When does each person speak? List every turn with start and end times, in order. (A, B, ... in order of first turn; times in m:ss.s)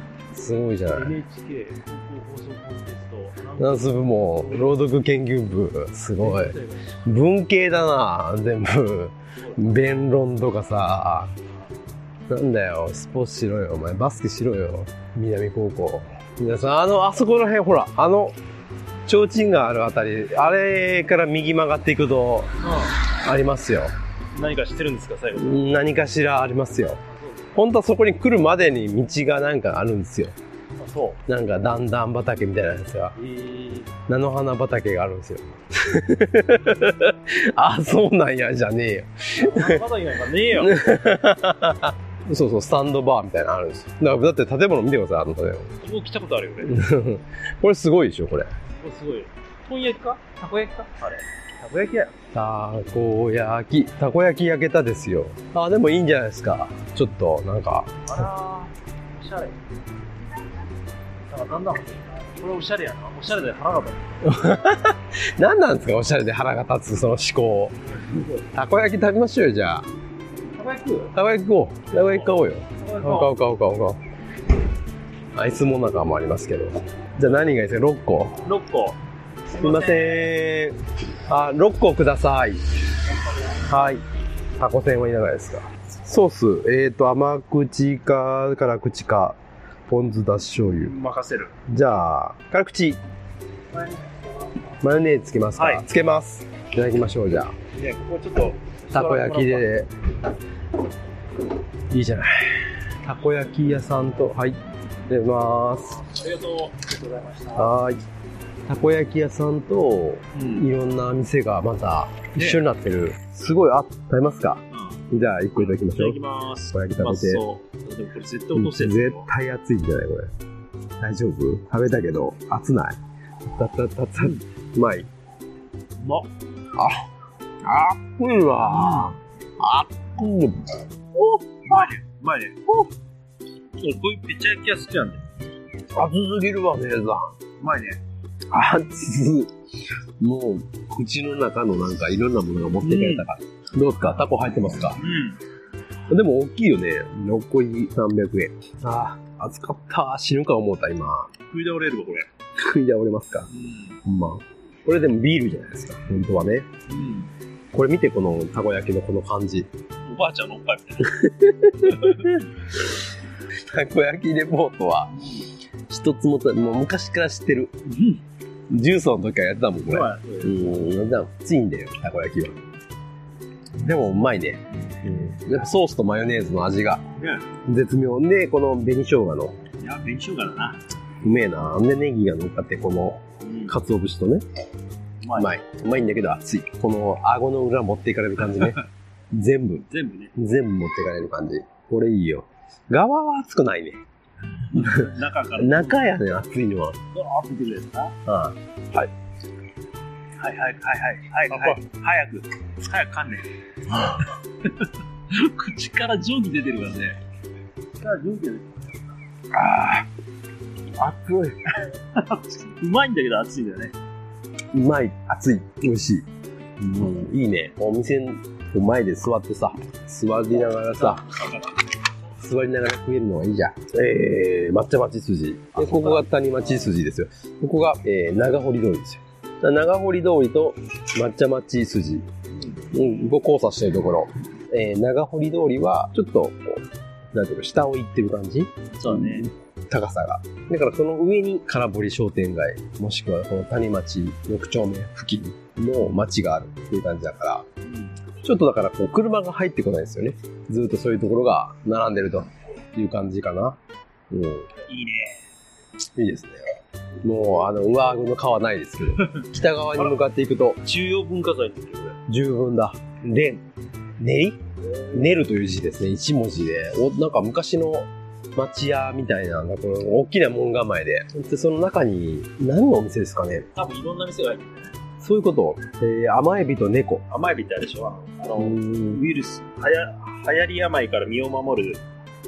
0:00.3-0:01.2 A
0:00.9-0:04.8 B
0:03.6-0:11.3 A
0:06.2-0:07.0 B
0:09.4-0:09.7 B
0:12.3-0:18.4 A
0:19.1-0:22.5 A
0:22.6-0:23.0 B
0:23.1-0:23.9 A
0:24.3-0:25.6 B
0:25.4-0:27.0 A
0:27.0-0:27.6 B
0:27.5-0:30.3 A
0:30.8-0:31.2 B
0:31.2-0:33.1 A
0:33.2-0:33.9 B
0:34.1-0:39.8 A
0:39.4-0:40.8 B
0:40.6-0:45.7 A
0:45.8-0:46.8 B
0:46.6-0:48.5 A
0:48.8-0:52.1 B
0:52.1-0:58.2 A
0:58.0-0:59.6 B
1:01.3-1:04.1 B
1:04.2-1:07.8 A
1:07.8-1:08.4 B
1:08.5-1:09.8 A
1:10.5-1:11.1 B
1:11.1-1:14.0 A
1:12.0-1:13.3 B
1:15.3-1:18.4 A
1:18.4-1:19.0 B
1:19.5-1:20.3 B
1:19.5-1:22.6 A
1:23.6-1:24.0 A
1:24.6-1:30.9 A
1:30.8-1:31.5 B
1:31.7-1:33.0 A
1:33.7-1:34.1 B
1:34.8-1:37.6 A
1:35.5-1:35.8 B
1:37.7-1:39.7 B
1:38.9-1:39.9 A
1:41.9-1:46.0 A
1:45.9-1:47.8 B
1:47.5-1:48.0 A
1:48.7-1:56.2 A
1:50.3-1:50.7 B
1:52.3-1:52.6 B
1:54.7-1:55.0 B
1:55.5-1:59.3 B
1:56.7-1:57.4 A
1:58.5-2:00.3 A
2:01.0-2:03.0 A
2:03.5-2:05.1 A
2:04.2-2:04.4 B
2:06.0-2:06.3 B
2:06.7-2:07.0 A
2:07.6-2:11.9 A
2:08.7-2:09.1 B
2:11.6-2:12.6 B
2:12.6-2:12.9 A
2:13.8-2:15.2 B
2:15.9-2:17.3 A
2:17.6-2:18.0 B
2:18.5-2:19.5 A
2:20.2-2:25.0 A
2:22.8-2:23.3 B
2:25.0-2:25.4 B
2:26.1-2:31.3 A
2:31.5-2:32.3 B
2:32.6-2:33.5 A
2:33.5-2:34.0 B
2:34.0-2:36.7 A
2:36.9-2:37.3 B
2:37.7-2:39.7 A
2:40.0-2:41.2 B
2:41.0-2:42.4 A
2:41.8-2:42.4 B
2:43.6-2:45.1 A
2:45.9-2:47.7 A
2:47.8-2:48.2 B
2:48.7-2:52.6 A
2:49.9-2:50.8 B
2:53.8-2:57.0 A
2:57.2-2:57.5 B
2:57.6-2:59.6 A
2:59.8-3:00.8 B
3:01.2-3:04.4 A
3:03.4-3:03.8 B
3:05.2-3:05.6 B
3:05.4-3:08.8 A
3:09.3-3:14.0 A
3:09.9-3:10.3 B
3:14.7-3:16.0 B
3:14.8-3:17.0 A
3:17.1-3:18.2 B
3:18.2-3:19.1 A
3:20.4-3:23.4 B
3:21.5-3:21.8 A
3:23.9-3:24.2 A
3:24.6-3:27.2 B
3:28.0-3:29.0 B
3:29.5-3:30.1 A
3:31.0-3:31.6 A
3:32.1-3:33.9 B
3:34.7-3:36.2 A
3:36.8-3:41.2 A
3:41.0-3:41.7 B
3:42.4-3:52.3 A
3:45.7-3:46.9 B
3:52.6-3:52.9 B
3:52.9-4:07.6 A
3:58.9-3:59.5 B
4:07.8-4:08.2 B
4:08.4-4:13.8 A
4:14.3-4:14.7 A
4:14.8-4:15.4 B
4:16.2-4:16.6 A
4:17.2-4:20.8 A
4:20.8-4:22.2 B
4:22.3-4:23.6 A
4:24.2-4:33.7 A
4:33.7-4:34.9 B
4:35.2-4:37.2 A
4:37.3-4:42.0 B
4:38.6-4:39.2 A